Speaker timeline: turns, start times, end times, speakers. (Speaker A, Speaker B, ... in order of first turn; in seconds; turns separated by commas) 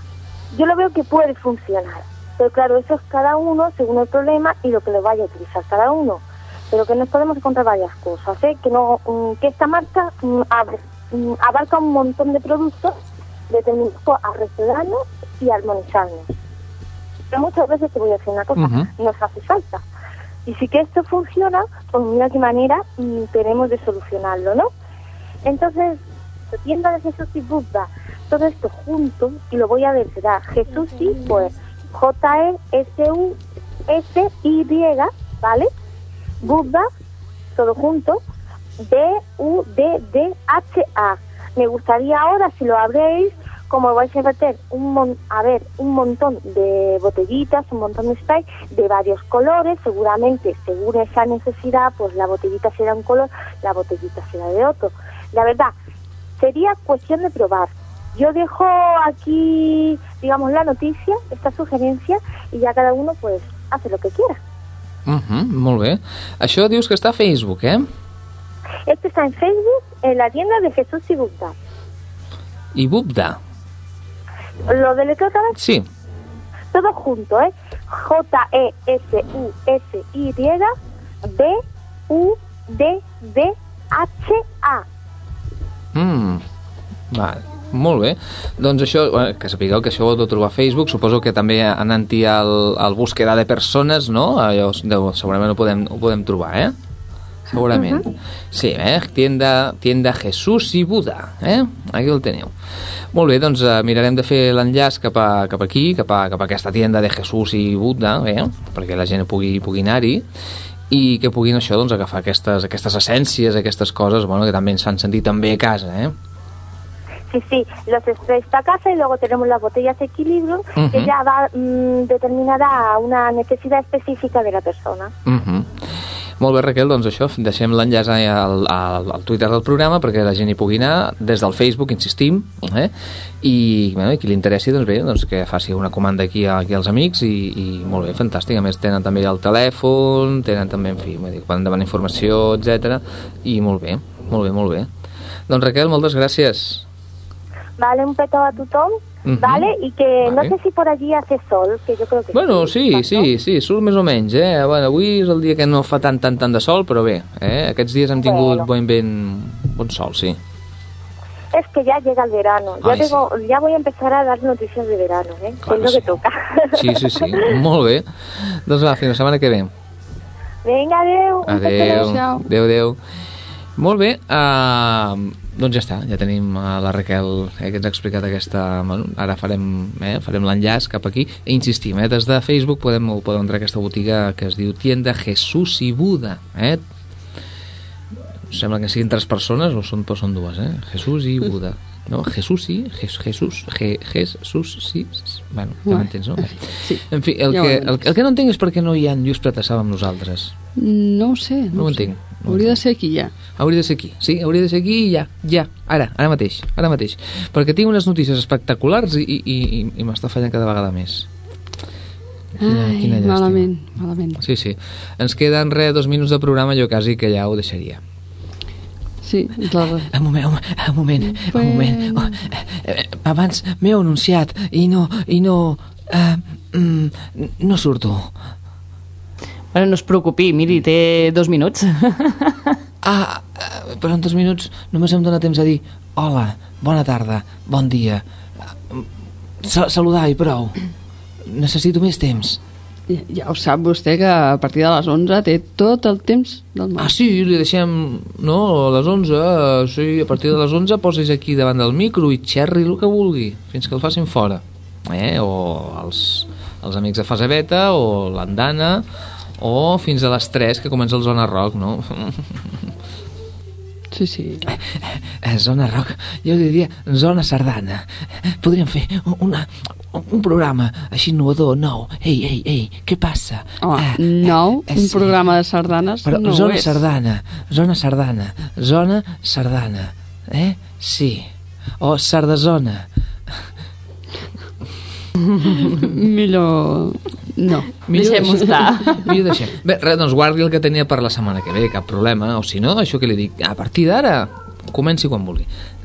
Speaker A: 0.5-13.0, Speaker A: 13.5-16.3, Speaker A: 17.3-19.8, Speaker B: 18.6-18.9, Speaker A: 20.5-24.7, Speaker A: 25.4-26.0, Speaker A: 26.5-33.4, Speaker A: 33.9-35.7, Speaker A: 36.4-36.9, Speaker A: 37.6-38.2, Speaker A: 38.8-55.7, Speaker A: 56.4-64.4, Speaker B: 65.1-67.9, Speaker A: 68.9-71.5, Speaker B: 72.8-73.4, Speaker A: 74.7-75.6, Speaker B: 75.6-75.9, Speaker A: 76.7-80.7, Speaker A: 81.2-84.8, Speaker B: 85.9-86.4, Speaker B: 87.1-96.8, Speaker B: 97.5-102.5, Speaker A: 97.7-98.0, Speaker B: 103.1-110.2, Speaker B: 110.9-116.1, Speaker A: 117.3-125.1, Speaker B: 120.8-121.1, Speaker B: 125.2-144.9, Speaker B: 145.5-146.9, Speaker A: 147.8-153.3, Speaker B: 149.2-149.7, Speaker B: 150.2-150.5, Speaker B: 152.3-160.4, Speaker A: 158.2-158.7, Speaker A: 161.5-167.5, Speaker B: 162.8-163.2, Speaker B: 165.6-166.2, Speaker B: 166.8-169.7, Speaker A: 170.7-171.9, Speaker B: 171.5-173.0, Speaker C: 171.6-172.4, Speaker B: 173.8-186.8, Speaker B: 188.5-200.5, Speaker C: 195.8-198.1, Speaker C: 200.8-203.3, Speaker B: 201.7-202.8, Speaker B: 203.6-211.3, Speaker B: 212.6-213.7, Speaker C: 212.6-214.4, Speaker B: 214.4-218.0, Speaker C: 219.2-220.1, Speaker B: 219.8-228.3, Speaker C: 221.2-222.4, Speaker D: 229.7-232.8, Speaker B: 233.0-238.2, Speaker B: 239.6-240.8, Speaker B: 241.4-242.6, Speaker C: 243.1-247.1, Speaker B: 247.0-259.1, Speaker B: 259.6-262.9, Speaker C: 264.1-264.7, Speaker B: 264.7-275.4, Speaker C: 273.8-277.0, Speaker B: 276.2-283.6, Speaker D: 285.6-285.9, Speaker C: 286.0-288.6, Speaker B: 288.1-295.7, Speaker D: 288.1-289.4